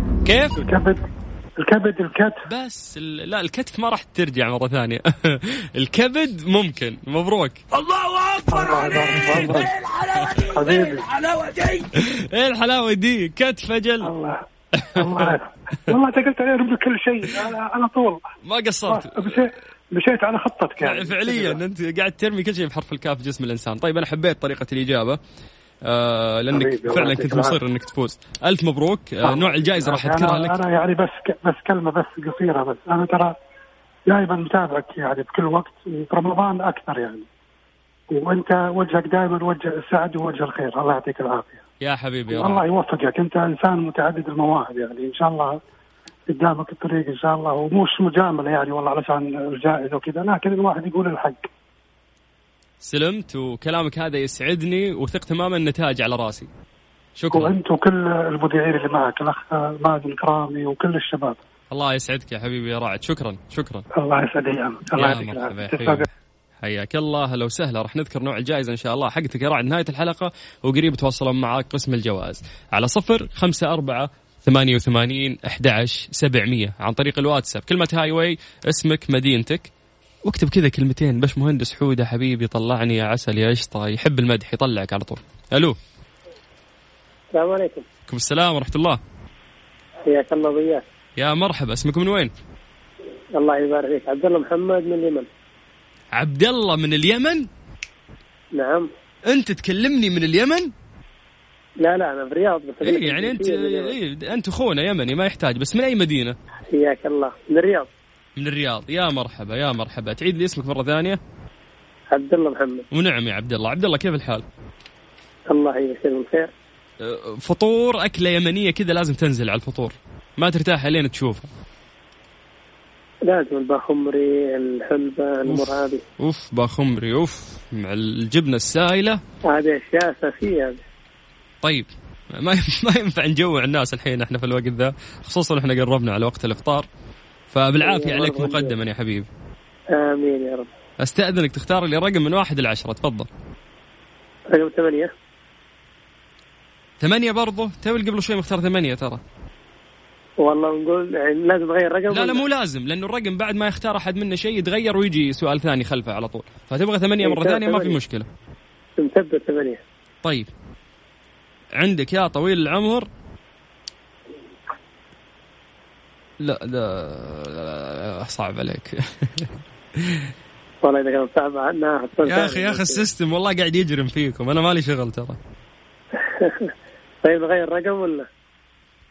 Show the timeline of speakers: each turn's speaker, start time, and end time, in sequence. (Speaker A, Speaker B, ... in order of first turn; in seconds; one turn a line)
Speaker A: 0.2-0.6
Speaker B: 0.6-1.0
Speaker B: 1.6-2.4
Speaker A: 2.5-7.6
Speaker C: 7.7-11.9
Speaker B: 8.5-9.7
Speaker B: 10.5-11.1
Speaker A: 12.1-14.1
Speaker B: 14.0-14.4
Speaker A: 14.8-15.4
Speaker B: 14.9-18.2
Speaker A: 18.4-19.4
Speaker B: 18.9-21.6
Speaker A: 20.8-25.2
Speaker A: 25.9-30.6
Speaker B: 26.5-27.6
Speaker B: 29.2-33.3
Speaker B: 34.1-37.3
Speaker B: 38.1-41.6
Speaker A: 41.8-42.6
Speaker B: 42.3-45.6
Speaker B: 46.3-51.5
Speaker A: 52.8-56.5
Speaker A: 57.2-57.5
Speaker B: 57.3-61.4
Speaker A: 61.7-63.9
Speaker B: 64.0-66.1
Speaker A: 65.0-66.1
Speaker A: 66.6-79.7
Speaker A: 80.2-85.8
Speaker D: 87.3-87.8
Speaker A: 88.1-89.0
Speaker D: 90.1-90.8
Speaker A: 91.2-92.3
Speaker D: 93.4-95.3
Speaker A: 96.1-97.5
Speaker D: 98.5-98.9
Speaker A: 99.3-100.7
Speaker D: 101.8-103.9
Speaker A: 102.8-106.4
Speaker D: 106.7-107.9
Speaker A: 108.4-111.2
Speaker D: 112.1-112.8
Speaker A: 112.9-114.5
Speaker D: 115.5-116.5
Speaker A: 117.0-121.5
Speaker D: 123.3-126.0
Speaker A: 125.5-129.2
Speaker D: 129.5-130.8
Speaker A: 131.6-136.9
Speaker A: 137.5-139.3
Speaker D: 137.8-138.7
Speaker D: 139.9-140.7
Speaker A: 141.0-143.3
Speaker D: 144.5-145.1
Speaker A: 147.0-149.2
Speaker D: 150.4-152.4
Speaker A: 152.1-158.3
Speaker D: 157.2-158.0
Speaker D: 159.0-159.8
Speaker A: 160.2-160.5
Speaker A: 161.8-163.1
Speaker A: 166.4-169.5
Speaker D: 170.8-173.1
Speaker A: 172.2-175.4
Speaker D: 176.4-176.7
Speaker D: 177.2-178.3